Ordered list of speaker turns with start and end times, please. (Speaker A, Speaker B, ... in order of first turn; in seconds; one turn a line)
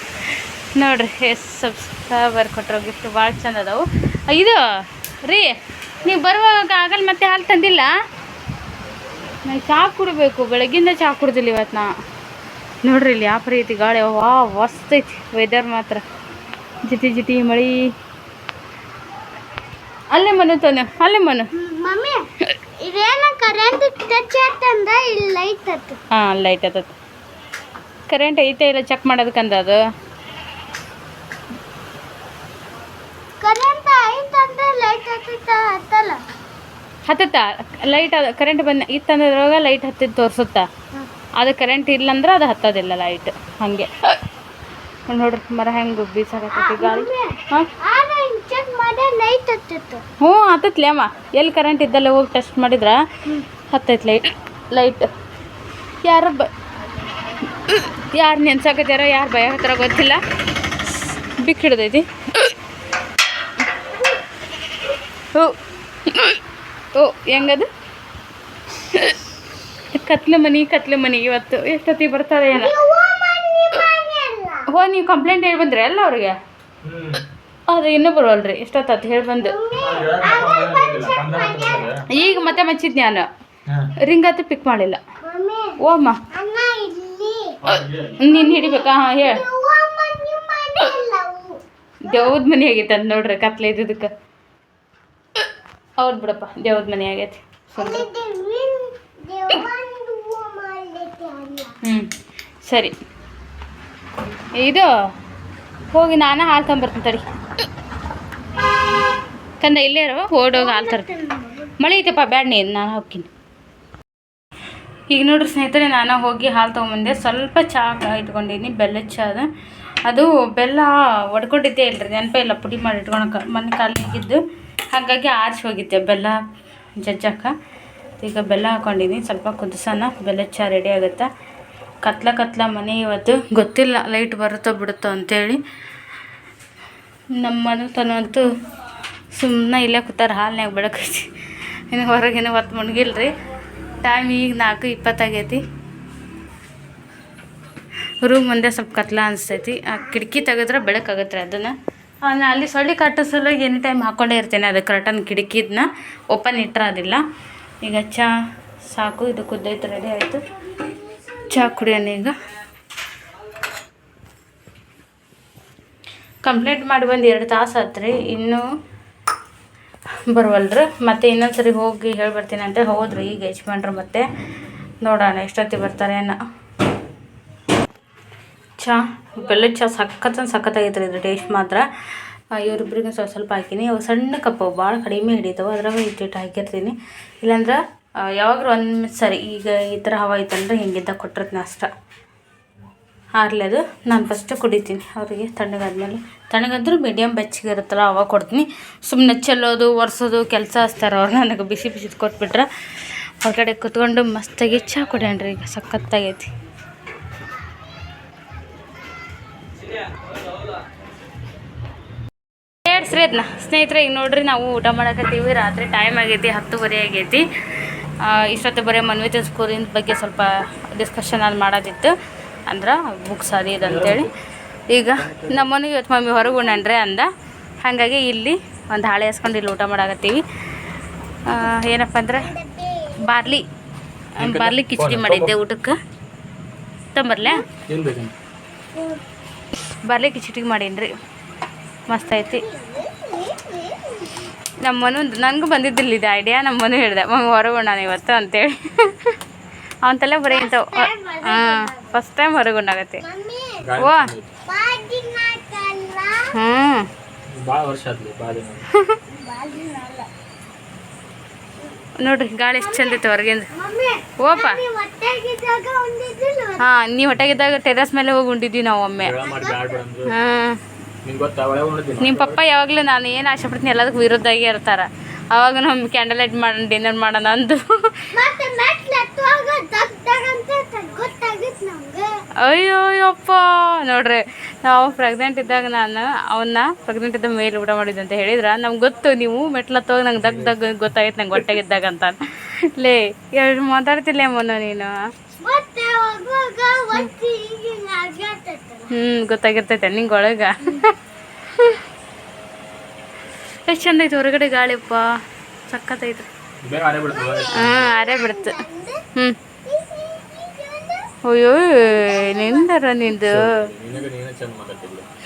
Speaker A: 0.8-4.6
Speaker A: 5.2-7.9
Speaker A: 9.5-11.9
Speaker A: 12.8-16.0
Speaker A: 16.8-17.9
Speaker A: 20.1-21.5
Speaker B: 21.5-22.2
Speaker B: 22.8-26.0
Speaker A: 26.1-26.9
Speaker A: 28.1-29.8
Speaker B: 33.4-36.2
Speaker A: 37.1-40.7
Speaker A: 41.4-44.2
Speaker A: 45.1-47.7
Speaker B: 46.5-50.0
Speaker A: 50.2-53.0
Speaker A: 53.7-55.1
Speaker A: 56.0-56.5
Speaker A: 57.7-60.2
Speaker A: 61.4-62.5
Speaker A: 66.0-66.4
Speaker A: 66.9-67.7
Speaker A: 69.9-72.7
Speaker B: 72.5-74.7
Speaker A: 74.7-76.4
Speaker C: 76.8-77.2
Speaker A: 77.7-79.5
Speaker B: 79.4-82.6
Speaker C: 79.8-82.0
Speaker A: 82.1-83.3
Speaker C: 83.7-83.9
Speaker A: 84.0-85.0
Speaker B: 85.2-85.8
Speaker A: 85.8-86.2
Speaker B: 86.3-87.6
Speaker C: 87.6-88.2
Speaker A: 88.2-89.4
Speaker B: 88.3-91.6
Speaker A: 92.0-94.1
Speaker A: 96.0-98.1
Speaker B: 97.8-101.7
Speaker A: 101.8-102.1
Speaker A: 102.7-102.9
Speaker A: 104.6-104.9
Speaker A: 105.9-107.2
Speaker A: 109.6-111.1
Speaker B: 110.5-111.7
Speaker A: 111.8-113.3
Speaker A: 115.1-119.5
Speaker A: 120.1-124.4
Speaker A: 124.9-126.4
Speaker A: 127.0-127.5
Speaker A: 128.2-131.3
Speaker A: 132.0-135.6
Speaker A: 137.3-138.4
Speaker A: 139.3-141.3
Speaker A: 141.9-143.3
Speaker A: 144.0-145.6
Speaker A: 148.2-157.2
Speaker A: 157.8-158.3
Speaker A: 158.9-160.4
Speaker B: 160.9-161.8
Speaker A: 161.5-162.3
Speaker A: 166.4-168.6
Speaker A: 170.3-174.3
Speaker A: 175.0-176.3
Speaker A: 178.8-181.9
Speaker A: 182.5-191.9
Speaker A: 193.3-202.7
Speaker A: 203.4-206.5
Speaker A: 212.8-217.4
Speaker A: 218.2-222.1
Speaker A: 222.7-224.3
Speaker C: 223.8-224.3
Speaker A: 224.9-227.3
Speaker C: 225.1-225.7
Speaker A: 227.8-230.4
Speaker A: 231.5-232.5
Speaker B: 232.4-233.2
Speaker A: 233.2-233.6
Speaker A: 234.3-235.9
Speaker C: 234.4-235.5
Speaker A: 237.1-237.6
Speaker C: 237.9-238.3
Speaker B: 238.9-239.2
Speaker A: 240.0-241.1
Speaker A: 242.1-242.6
Speaker B: 242.1-244.3
Speaker A: 244.8-249.3
Speaker A: 250.0-253.2
Speaker B: 250.5-252.1
Speaker B: 253.2-253.8
Speaker C: 253.8-254.5
Speaker A: 254.0-254.3
Speaker B: 254.7-256.5
Speaker A: 256.5-257.1
Speaker C: 257.5-258.9
Speaker A: 258.9-259.2
Speaker B: 259.3-260.3
Speaker A: 262.2-263.7
Speaker B: 262.8-263.2
Speaker B: 263.7-267.0
Speaker A: 264.4-264.8
Speaker A: 266.8-269.3
Speaker C: 269.2-270.3
Speaker B: 269.4-270.0
Speaker A: 270.3-270.8
Speaker C: 271.2-272.6
Speaker A: 272.2-277.8
Speaker B: 278.3-282.3
Speaker A: 282.6-295.1
Speaker B: 295.6-299.1
Speaker A: 299.1-301.1
Speaker A: 301.7-302.0
Speaker A: 303.9-305.2
Speaker A: 305.9-306.5
Speaker C: 306.8-308.1
Speaker B: 307.3-309.2
Speaker A: 307.7-308.8
Speaker B: 309.9-311.3
Speaker A: 311.4-313.8
Speaker B: 312.1-312.9
Speaker C: 313.4-315.3